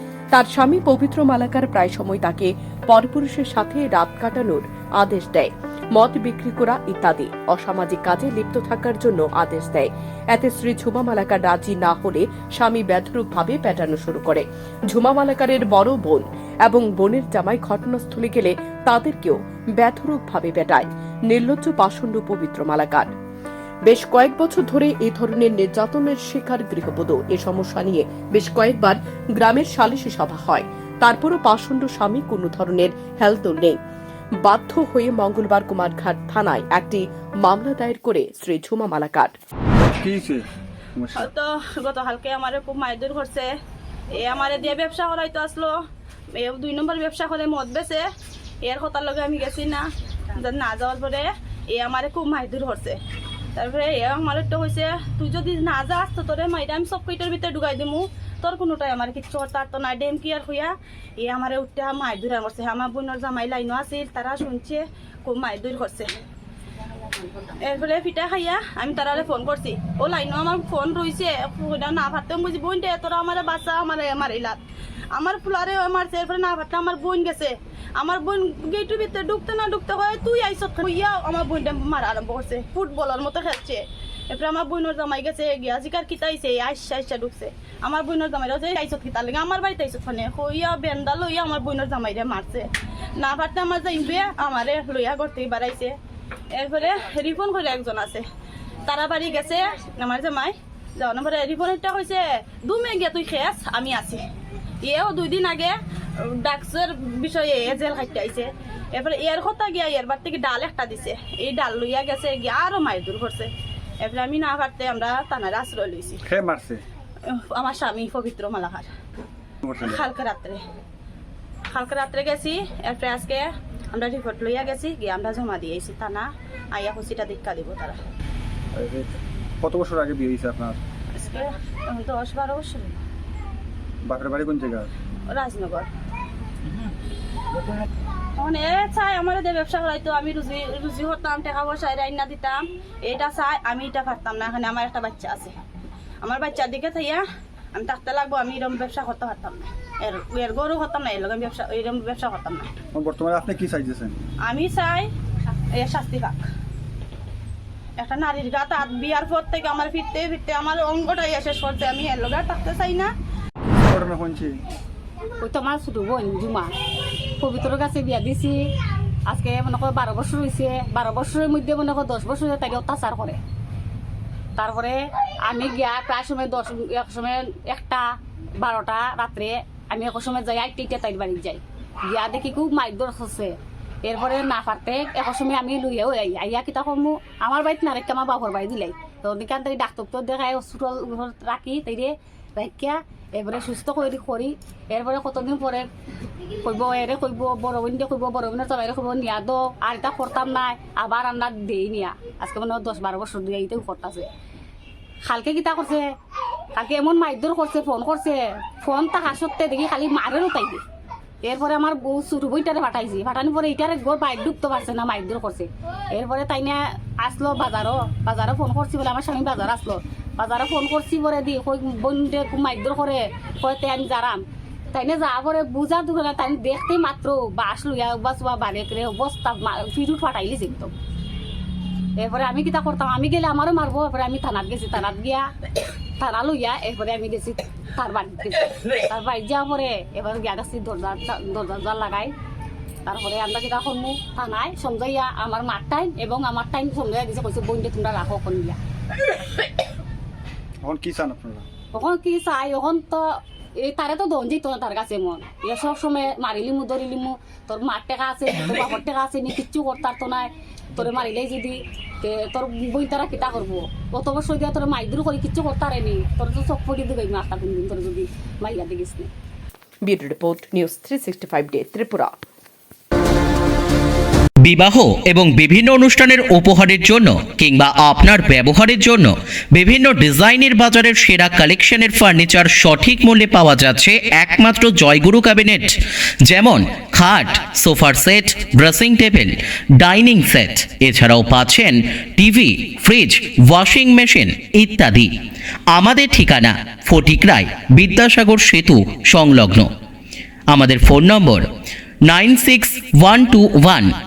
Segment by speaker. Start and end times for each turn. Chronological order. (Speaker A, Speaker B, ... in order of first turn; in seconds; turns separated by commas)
Speaker A: 0.3-23.1, Speaker A: 23.9-33.8, Speaker A: 34.4-39.3, Speaker B: 39.9-40.5, Speaker B: 41.0-41.3, Speaker C: 41.3-43.5, Speaker C: 44.1-45.7, Speaker C: 46.4-48.0, Speaker C: 48.6-49.9, Speaker C: 50.4-53.0, Speaker C: 53.6-66.1, Speaker C: 67.4-74.6, Speaker C: 75.2-96.0, Speaker C: 96.5-98.2, Speaker C: 98.8-104.2, Speaker C: 104.8-105.8, Speaker C: 106.3-113.5, Speaker C: 114.0-116.2, Speaker B: 116.3-116.8, Speaker C: 117.3-118.9, Speaker B: 119.6-120.0, Speaker C: 119.8-120.6, Speaker C: 121.7-128.0, Speaker B: 128.7-130.8, Speaker C: 131.2-133.0, Speaker B: 134.1-134.9, Speaker C: 135.3-135.9, Speaker C: 138.4-145.5, Speaker C: 146.2-147.2, Speaker C: 147.7-152.7, Speaker B: 152.9-154.2, Speaker C: 154.4-155.1, Speaker C: 155.8-156.4, Speaker C: 158.0-163.1, Speaker B: 163.8-164.5, Speaker D: 165.4-166.7, Speaker D: 167.4-168.6, Speaker D: 169.3-173.4, Speaker D: 174.6-178.0, Speaker D: 178.6-195.9, Speaker D: 196.6-204.3, Speaker D: 205.2-206.0, Speaker D: 206.8-210.8, Speaker D: 211.4-230.9, Speaker D: 232.2-235.5, Speaker D: 236.2-242.3, Speaker D: 243.1-248.8, Speaker B: 250.8-251.7, Speaker D: 251.9-253.2, Speaker D: 253.8-269.3, Speaker A: 270.1-272.4, Speaker E: 274.6-295.3, Speaker E: 295.9-299.9, Speaker E: 300.7-301.6, Speaker E: 302.3-304.1